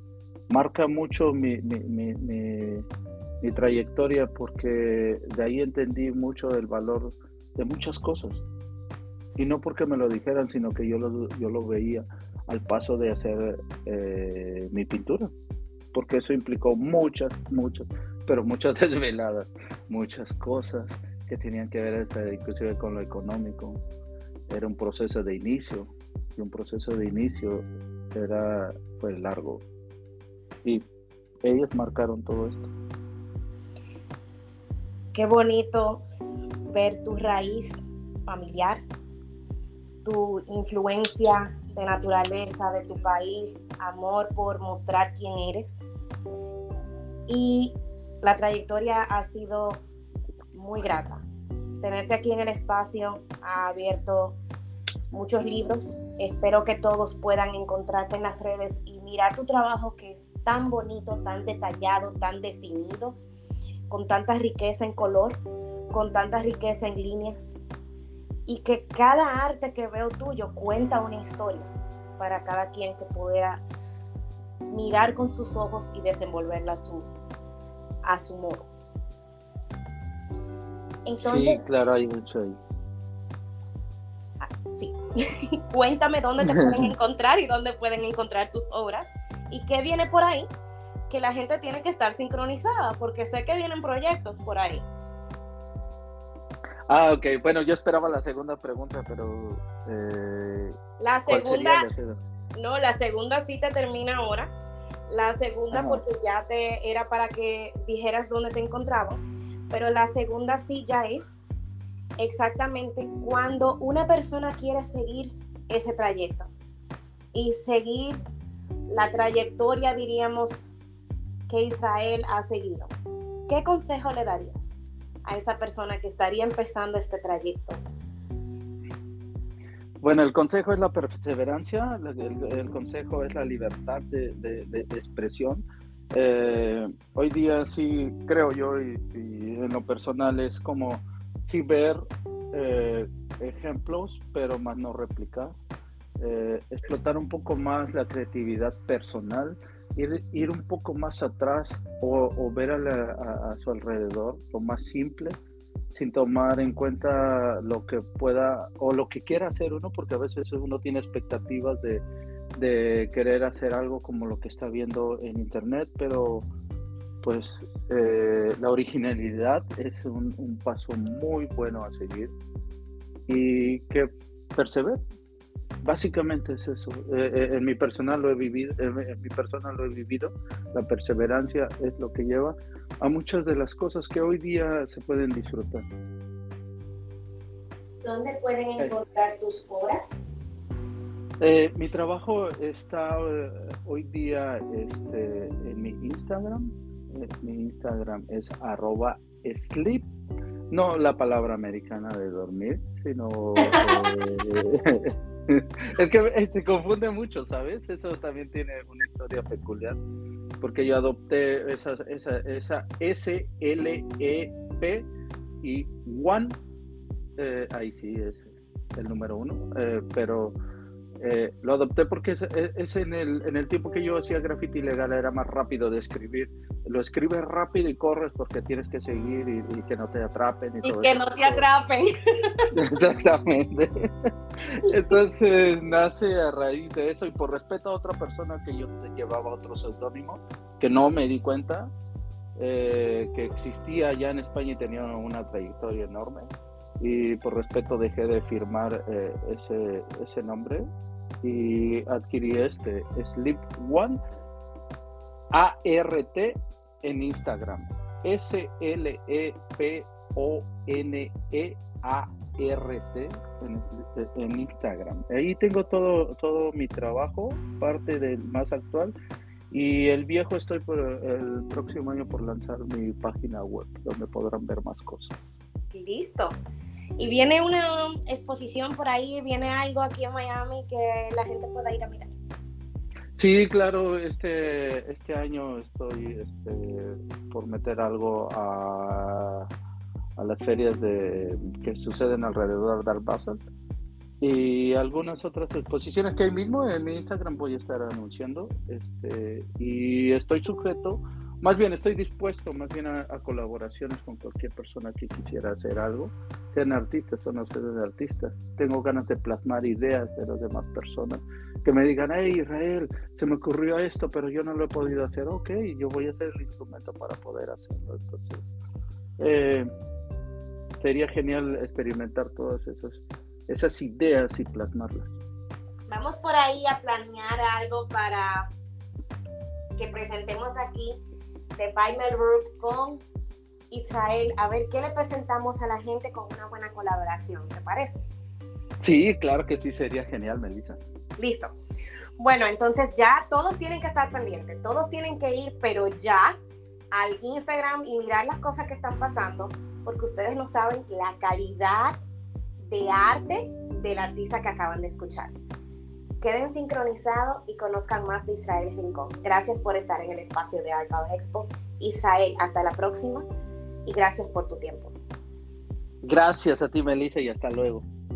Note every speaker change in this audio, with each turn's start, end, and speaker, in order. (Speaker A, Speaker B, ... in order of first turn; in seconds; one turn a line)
Speaker A: 0.5-2.9
Speaker A: 3.4-8.4
Speaker A: 9.3-15.3
Speaker A: 15.9-23.8
Speaker A: 24.5-29.6
Speaker A: 31.4-32.7
Speaker B: 35.1-36.0
Speaker B: 36.7-38.8
Speaker B: 40.0-45.8
Speaker B: 47.3-49.8
Speaker B: 50.5-51.2
Speaker B: 51.8-54.4
Speaker B: 55.1-63.2
Speaker B: 63.9-65.4
Speaker B: 65.9-67.6
Speaker B: 68.5-73.6
Speaker B: 74.7-77.1
Speaker B: 78.0-78.7
Speaker B: 81.0-81.7
Speaker A: 81.2-82.6
Speaker B: 84.4-85.0
Speaker B: 85.7-90.5
Speaker A: 86.4-86.9
Speaker B: 91.1-94.8
Speaker A: 96.9-100.8
Speaker B: 101.0-101.9
Speaker A: 101.3-102.2
Speaker B: 102.5-104.5
Speaker B: 105.1-111.4
Speaker A: 105.7-106.0
Speaker B: 112.2-116.5
Speaker B: 117.3-118.2
Speaker B: 118.9-120.7
Speaker B: 121.5-122.9
Speaker B: 123.5-127.8
Speaker A: 130.0-142.0
Speaker A: 142.5-145.5
Speaker A: 146.2-155.4
Speaker A: 155.9-162.0
Speaker A: 162.6-166.5
Speaker A: 167.2-172.3
Speaker A: 173.3-175.0
Speaker A: 175.8-185.9
Speaker B: 188.0-190.2
Speaker A: 191.4-200.1
Speaker A: 200.7-210.0
Speaker B: 203.6-204.0
Speaker A: 210.6-215.1
Speaker A: 215.6-216.6
Speaker A: 217.4-220.6
Speaker A: 221.2-231.6
Speaker B: 230.8-232.1
Speaker A: 232.7-234.1
Speaker A: 234.7-241.9
Speaker A: 242.6-250.8
Speaker A: 251.4-254.2
Speaker A: 255.5-269.1
Speaker A: 269.7-275.4
Speaker B: 275.9-276.6
Speaker B: 277.2-282.3
Speaker A: 283.4-289.7
Speaker A: 290.4-293.6
Speaker A: 294.4-318.7
Speaker A: 319.4-319.9
Speaker A: 321.0-325.3
Speaker B: 326.1-328.7
Speaker B: 330.0-331.2
Speaker B: 331.8-333.2
Speaker B: 333.9-338.2
Speaker A: 339.0-341.0
Speaker B: 341.4-341.7
Speaker B: 342.4-346.6
Speaker B: 347.1-352.2
Speaker B: 352.9-355.5
Speaker B: 356.4-363.4
Speaker B: 364.1-365.1
Speaker A: 366.2-368.0